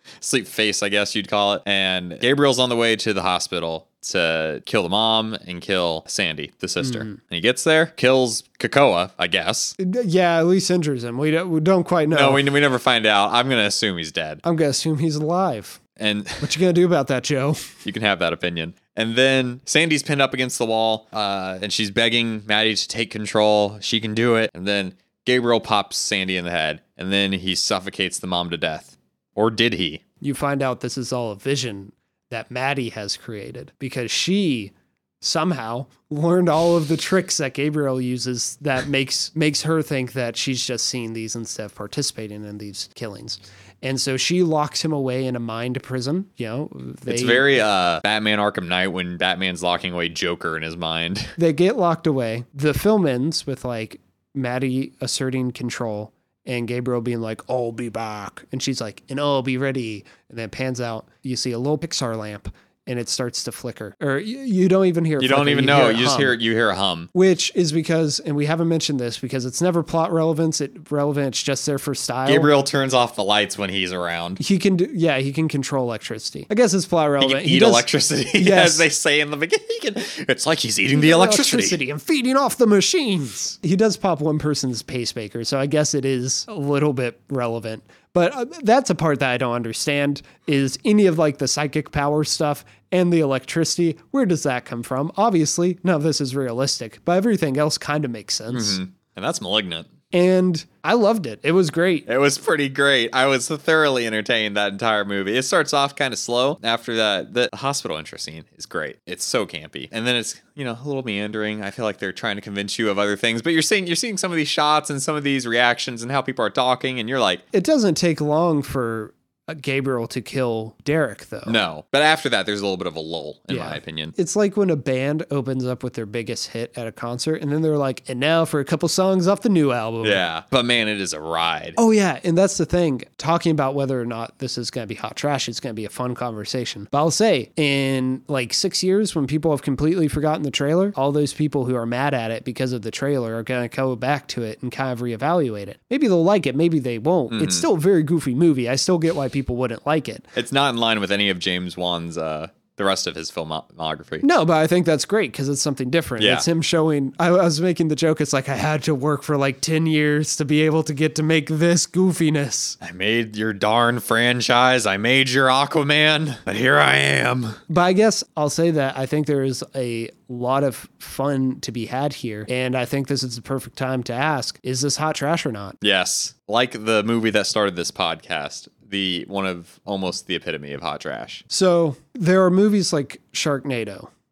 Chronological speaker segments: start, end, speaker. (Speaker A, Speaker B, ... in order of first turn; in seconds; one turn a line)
Speaker A: 0.2-9.8
Speaker B: 6.8-7.2
Speaker B: 9.8-12.4
Speaker A: 12.1-14.4
Speaker B: 14.4-15.8
Speaker A: 16.0-16.5
Speaker B: 16.4-17.7
Speaker A: 17.9-30.0
Speaker B: 30.2-47.5
Speaker A: 47.1-51.4
Speaker B: 51.4-66.4
Speaker A: 65.2-67.1
Speaker B: 67.1-72.5
Speaker A: 72.2-74.4
Speaker B: 74.4-78.9
Speaker A: 77.2-81.8
Speaker B: 80.9-98.8
Speaker A: 98.5-99.9
Speaker B: 100.1-102.1
Speaker A: 102.1-117.4
Speaker B: 117.5-121.6
Speaker A: 121.5-124.1
Speaker B: 123.5-130.2
Speaker A: 130.0-131.8
Speaker B: 131.8-150.3
Speaker A: 147.3-147.7
Speaker A: 150.3-154.2
Speaker B: 154.2-162.8
Speaker A: 156.2-156.4
Speaker A: 162.8-167.6
Speaker B: 167.7-175.8
Speaker A: 175.8-181.4
Speaker B: 181.5-184.1